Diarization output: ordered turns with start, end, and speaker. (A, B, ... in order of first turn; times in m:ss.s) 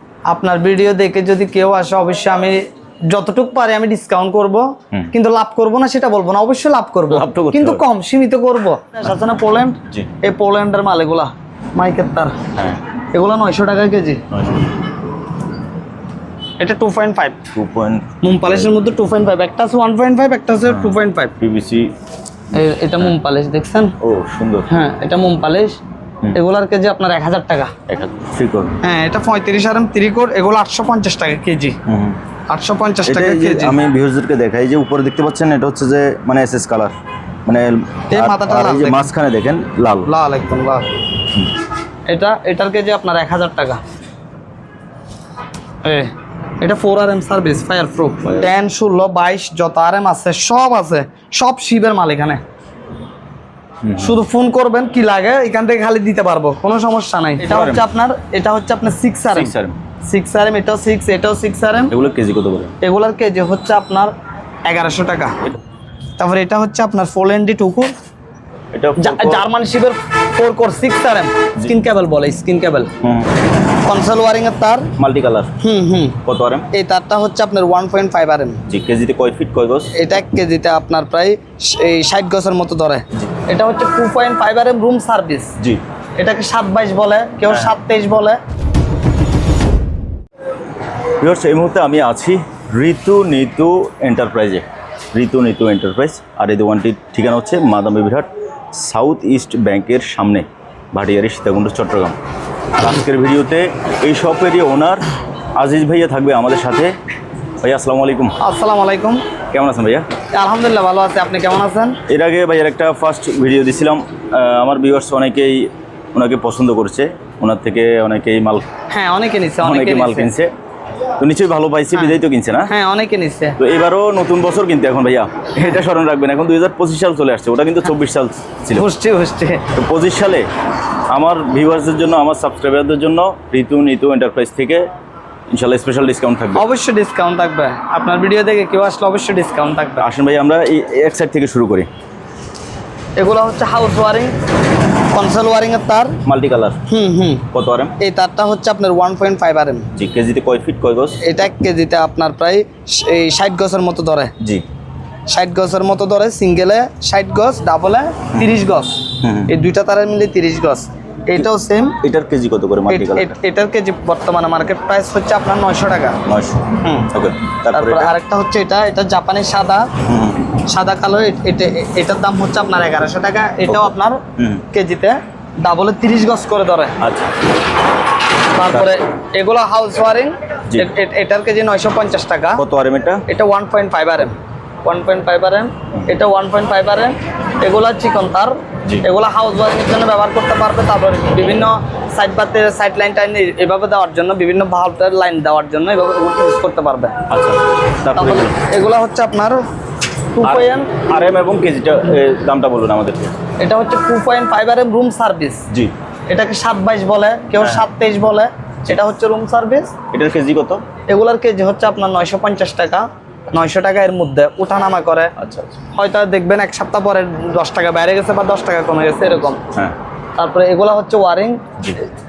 0:00.3-0:12.3 A
0:07.1-0:07.8 B
0:12.6-0:12.8 B
0:13.1-0:14.2 A
0:14.3-0:14.6 B
0:16.6-0:17.4 A
0:17.5-0:18.7 B
0:18.2-0:21.3 A
0:20.7-0:21.9 B
0:22.5-0:23.9 A
0:24.0-0:24.7 B
0:24.7-0:25.8 A
0:26.3-0:27.7 A
0:27.9-0:28.8 B
0:28.8-0:31.8 A
0:31.8-0:32.2 B
0:32.5-0:33.8 A
0:33.0-0:36.9 B
0:37.4-0:40.1 B
0:38.1-0:39.1 A
0:40.1-0:40.8 A
0:42.1-0:43.8 A
0:45.8-0:52.4 A
0:48.2-0:48.5 B
0:53.8-0:54.2 B
0:54.0-0:59.5 A
0:57.4-0:57.8 B
0:59.3-0:59.8 B
1:00.1-1:01.9 A
1:01.9-1:02.7 B
1:02.8-1:04.1 A
1:04.6-1:05.3 A
1:06.2-1:07.9 A
1:08.7-1:09.4 B
1:09.0-1:12.9 A
1:13.0-1:13.3 B
1:13.8-1:14.9 A
1:15.0-1:15.6 B
1:15.6-1:16.2 A
1:16.2-1:16.7 B
1:16.7-1:18.6 A
1:18.6-1:19.9 B
1:19.9-1:25.5 A
1:26.2-1:28.4 A
1:31.2-1:42.2 B
1:42.8-1:45.0 B
1:45.6-1:46.9 B
1:47.6-1:48.4 B
1:48.4-1:49.2 A
1:49.5-1:50.0 B
1:50.3-1:52.0 A
1:52.1-1:58.6 B
1:58.9-2:00.3 A
1:59.6-2:00.5 B
2:01.2-2:02.7 B
2:02.7-2:03.6 A
2:03.6-2:08.8 B
2:08.7-2:09.6 A
2:09.7-2:10.5 B
2:11.1-2:14.8 B
2:15.5-2:16.6 B
2:16.5-2:20.0 A
2:20.0-2:21.9 B
2:23.2-2:24.3 A
2:25.1-2:26.1 A
2:26.2-2:26.8 B
2:26.9-2:27.4 A
2:27.5-2:27.9 B
2:28.0-2:29.8 A
2:29.9-2:31.2 B
2:31.2-2:34.3 A
2:34.4-2:34.6 B
2:35.3-2:41.9 A
2:39.2-2:39.5 B
2:42.0-2:43.4 B
2:42.9-2:46.2 A
2:46.2-2:48.1 B
2:46.8-2:47.1 A
2:47.7-2:49.9 A
2:50.0-2:50.6 B
2:50.6-2:54.2 A
2:53.6-2:54.6 B
2:54.7-2:57.0 A
2:57.0-2:57.3 B
2:58.5-3:02.6 A
2:58.7-2:59.0 B
3:02.6-3:03.2 B
3:03.3-3:17.1 A
3:17.3-3:18.6 B
3:18.1-3:19.6 A
3:20.3-3:20.9 A
3:20.4-3:23.4 B
3:23.6-3:25.6 A
3:26.3-3:29.9 A
3:30.1-3:30.8 B
3:31.1-3:35.3 A
3:35.4-3:35.8 B
3:35.9-3:39.6 A
3:40.4-3:41.6 A